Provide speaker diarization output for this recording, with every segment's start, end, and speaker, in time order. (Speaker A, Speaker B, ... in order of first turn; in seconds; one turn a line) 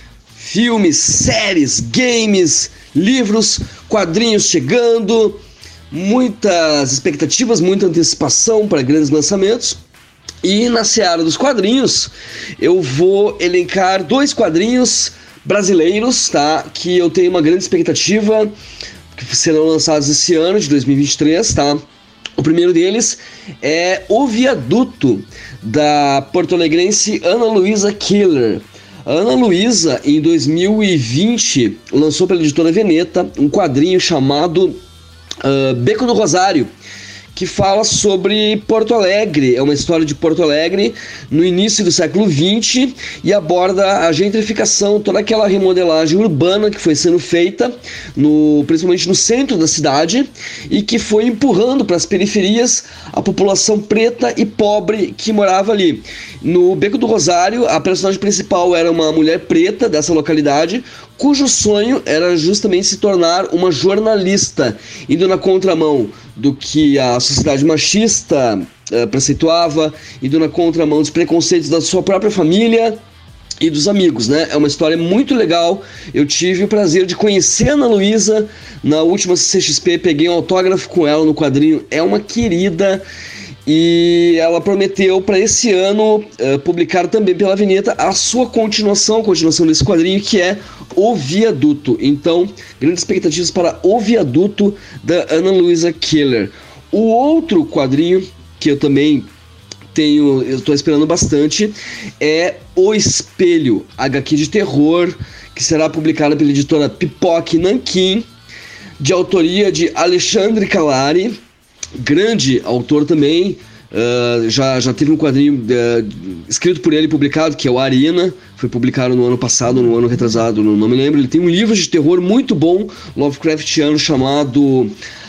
Speaker A: 0.3-9.8
Speaker A: 10.4-18.5
Speaker A: 19.1-21.8
Speaker A: 22.4-34.8
Speaker A: 35.4-36.7
Speaker A: 37.3-73.0
Speaker A: 73.6-83.0
Speaker A: 83.7-99.3
Speaker A: 99.9-108.3
Speaker A: 109.0-111.4
Speaker A: 112.0-124.9